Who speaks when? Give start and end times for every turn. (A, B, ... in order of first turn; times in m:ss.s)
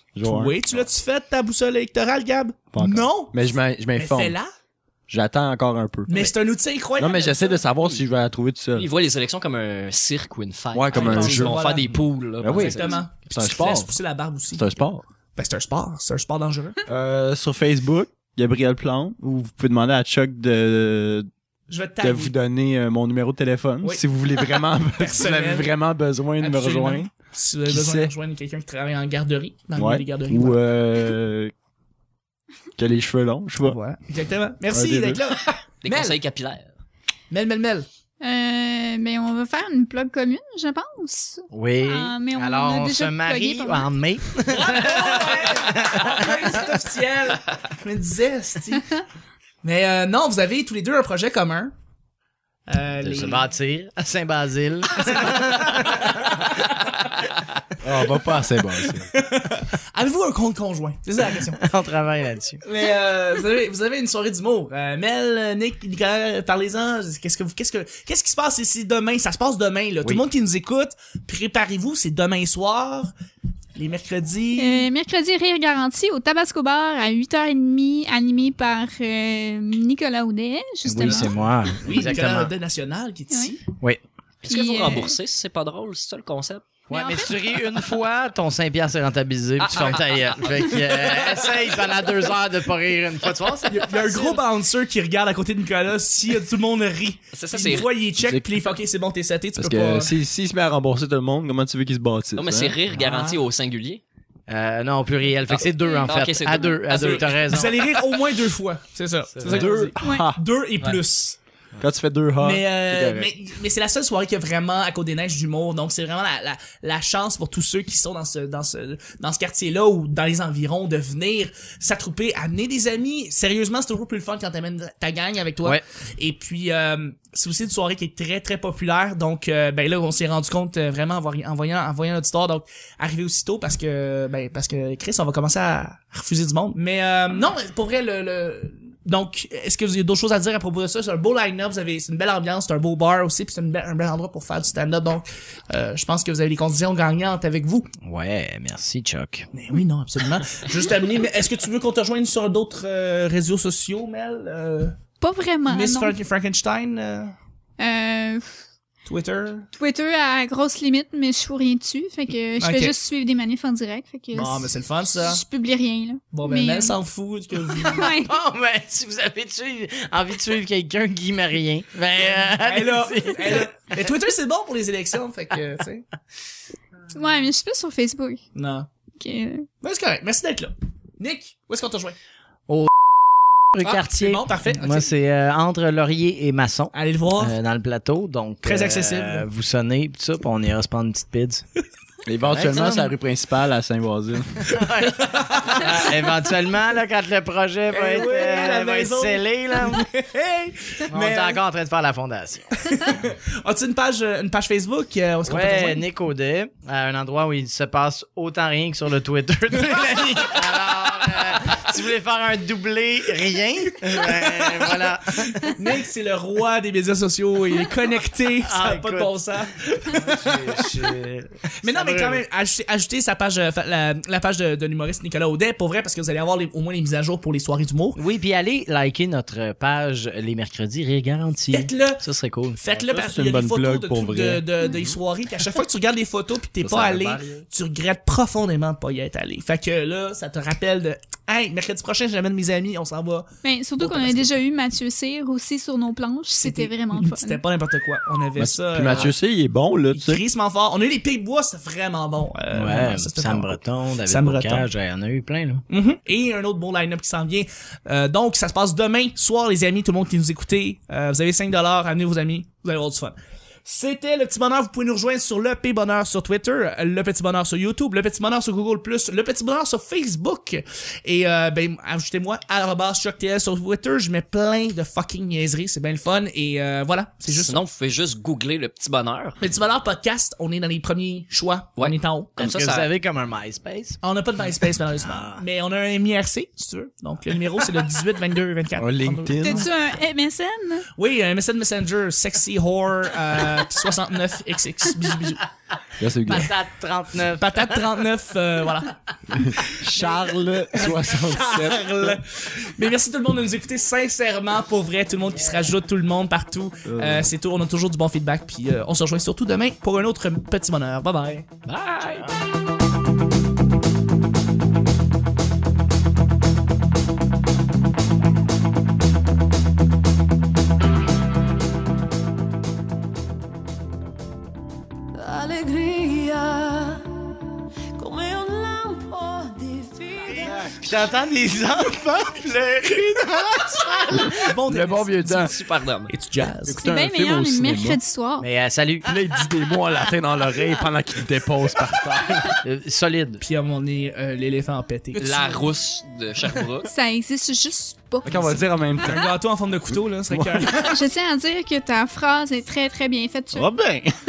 0:00.1-0:00.8 A
0:00.2-0:04.5 B
0:02.7-0:04.4 A
0:05.1-0:06.3 A
0:06.1-0:07.6 B
0:07.0-0:08.9 A
0:08.8-0:13.0 C
0:10.7-0:11.7 A
0:10.9-0:11.9 B
0:12.4-0:13.9 A
0:12.5-0:14.7 B
0:14.5-0:15.0 A
0:15.4-0:16.8 B
0:16.9-0:21.3 A
0:21.7-0:22.3 B
0:22.0-0:27.1 A
0:24.9-0:25.7 B
0:26.4-0:30.6 B
0:27.7-0:28.1 A
0:29.8-0:31.5 A
0:32.8-0:33.8 A
0:33.6-0:36.2 B
0:34.7-0:35.2 A
0:35.8-0:36.7 C
0:37.3-0:37.9 B
0:38.2-0:43.9 D
0:41.5-0:46.7 E
0:44.5-0:48.9 B
0:49.6-0:51.7 B
0:52.7-0:53.5 B
0:53.0-0:56.7 E
0:55.0-0:56.7 B
0:57.8-0:59.1 A
0:59.0-1:01.6 B
1:01.6-1:02.6 E
1:02.6-1:13.1 B
1:13.8-1:14.8 B
1:14.6-1:21.4 D
1:20.8-1:22.5 E
1:21.0-1:23.6 B
1:24.4-1:26.7 C
1:24.4-1:25.1 D
1:26.9-1:34.4 E
1:26.9-1:27.4 D
1:29.7-1:30.2 C
1:33.7-1:40.1 B
1:37.3-1:37.9 C
1:38.2-1:38.5 A
1:39.6-1:42.7 A
1:42.4-1:44.0 C
1:42.9-1:43.4 B
1:44.5-1:47.8 E
1:45.5-1:47.6 C
1:47.5-1:51.4 B
1:49.4-1:49.7 E
1:49.4-1:50.4 A
1:51.8-1:53.3 A
1:52.4-2:27.9 B
2:28.0-2:29.5 E
2:29.5-2:35.0 B
2:35.2-2:36.2 D
2:35.7-2:37.4 B
2:37.8-2:38.5 D
2:39.0-2:39.7 B
2:39.8-2:47.0 D
2:42.6-2:42.9 B
2:44.3-2:45.4 B
2:46.3-2:48.1 B
2:47.8-2:48.4 D
2:48.1-2:53.9 E
2:52.5-2:56.1 B
2:57.1-2:58.4 D
2:58.5-2:58.9 B
2:59.2-2:59.7 D
2:59.8-3:02.2 B
3:03.7-3:11.6 E
3:03.8-3:05.1 B
3:06.9-3:07.6 B
3:08.6-3:09.4 B
3:12.2-3:14.8 A
3:12.4-3:13.1 E
3:14.6-3:20.0 E
3:15.3-3:15.9 B
3:17.9-3:21.6 B
3:21.1-3:22.7 E
3:22.8-3:26.0 B
3:25.4-3:35.8 E
3:34.0-3:41.1 B
3:38.6-3:39.4 E
3:40.2-3:42.4 E
3:41.8-3:48.2 B
3:48.2-3:53.1 E
3:51.7-3:52.2 B
3:52.8-4:03.5 B
3:53.0-3:54.6 A
3:56.8-3:57.6 A
4:03.6-4:07.6 D
4:04.0-4:04.6 B
4:06.5-4:09.3 B
4:08.6-4:10.4 A
4:10.1-4:14.9 B
4:12.7-4:15.8 E
4:15.9-4:37.8 B
4:37.5-4:39.6 C
4:39.6-4:42.5 B
4:42.0-4:43.1 C
4:42.6-4:44.2 E
4:44.2-4:49.9 B
4:45.2-4:45.6 E
4:49.0-4:49.9 A
4:49.6-4:51.1 D
4:51.2-4:55.7 B
4:56.2-4:56.7 A
4:56.4-4:58.0 E
4:57.6-4:59.2 B
4:59.5-5:02.4 A
5:00.9-5:11.7 B
5:07.0-5:07.5 A
5:11.8-5:12.5 C
5:12.2-5:12.6 E
5:25.3-5:27.2 F
5:28.1-5:30.9 F
5:30.5-5:34.6 E
5:34.4-5:35.7 A
5:34.5-5:35.7 B
5:35.5-5:36.3 C
5:36.3-5:37.0 B
5:36.9-5:38.2 A
5:37.0-5:38.7 D
5:38.6-5:39.3 E
5:39.2-5:42.8 A
5:42.8-5:43.6 E
5:43.6-5:45.8 B
5:45.4-5:47.1 C
5:47.1-5:49.2 D
5:48.4-5:49.5 A
5:49.2-5:51.2 B
5:50.5-5:50.9 A
5:51.1-5:53.9 D
5:53.7-5:54.3 A